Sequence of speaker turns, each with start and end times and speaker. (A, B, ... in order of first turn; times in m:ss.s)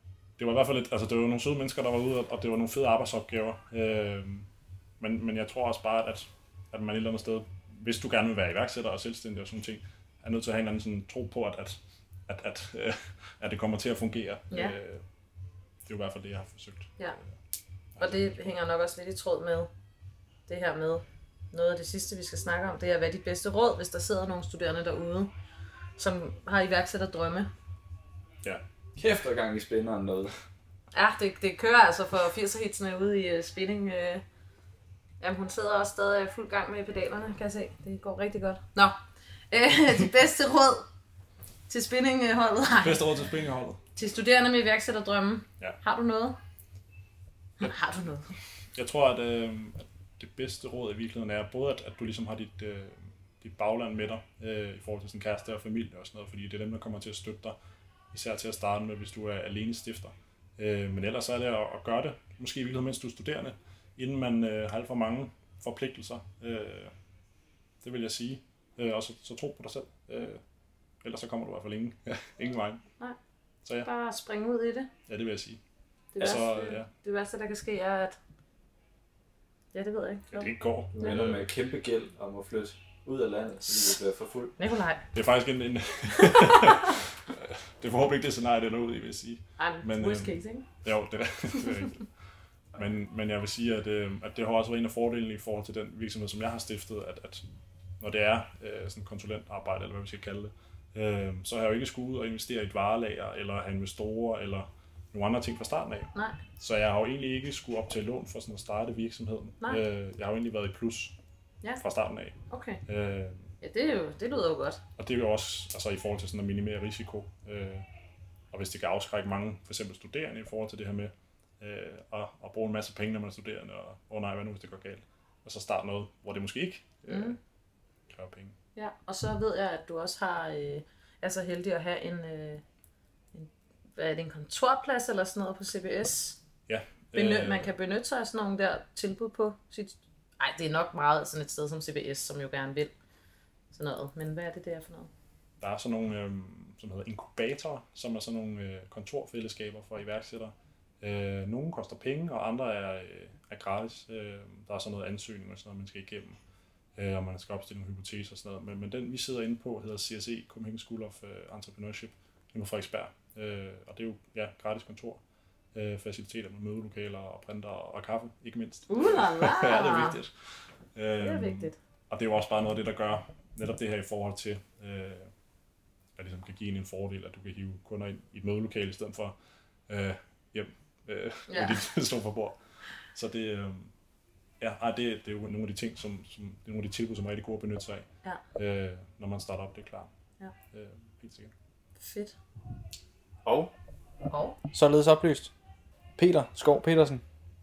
0:00.4-0:04.5 A
0:05.0-0:15.0 A
0:15.9-0:17.0 A
0:18.0-0:18.5 A
0:18.0-0:19.7 B
0:20.5-0:25.3 B
0:26.0-0:27.5 B
0:29.0-0:30.3 C
0:30.9-0:34.2 B
0:35.2-0:38.9 B
0:39.5-0:40.8 B
0:41.7-0:43.0 B
0:42.8-0:43.8 A
0:44.0-0:46.4 B
0:47.6-0:48.3 B
0:48.8-0:57.6 A
0:58.1-1:06.9 A
1:07.8-1:10.4 A
1:11.0-1:12.8 A
1:13.8-1:14.9 B
1:15.1-1:15.6 A
1:16.2-1:18.2 B
1:16.2-1:16.9 A
1:19.7-1:21.2 B
1:20.3-1:21.4 A
1:21.0-1:24.5 C
1:24.6-1:25.0 B
1:25.1-1:32.0 A
1:26.2-1:26.9 B
1:29.6-1:30.7 B
1:32.7-1:37.4 A
1:38.0-1:51.2 A
1:51.8-1:53.5 A
1:52.5-1:52.8 B
1:53.6-1:54.8 B
1:55.0-1:57.8 A
1:58.5-2:07.4 A
2:07.1-2:07.4 B
2:08.1-2:08.6 A
2:08.8-2:12.6 B
2:13.3-2:16.4 B
2:16.7-2:17.7 A
2:17.1-2:22.9 B
2:23.7-2:25.1 B
2:25.6-2:36.4 A
2:37.0-2:45.2 A
2:45.7-2:50.3 A
2:48.9-2:50.2 B
2:51.0-2:55.3 A
2:51.2-2:51.8 B
2:56.2-2:59.4 A
2:59.9-3:02.6 A
3:01.5-3:01.8 B
3:03.1-3:03.9 A
3:04.6-3:10.1 A
3:10.7-3:11.5 A
3:12.0-3:12.4 B
3:13.4-3:13.7 C
3:14.3-3:14.6 B
3:14.7-3:15.5 C
3:16.2-3:17.2 C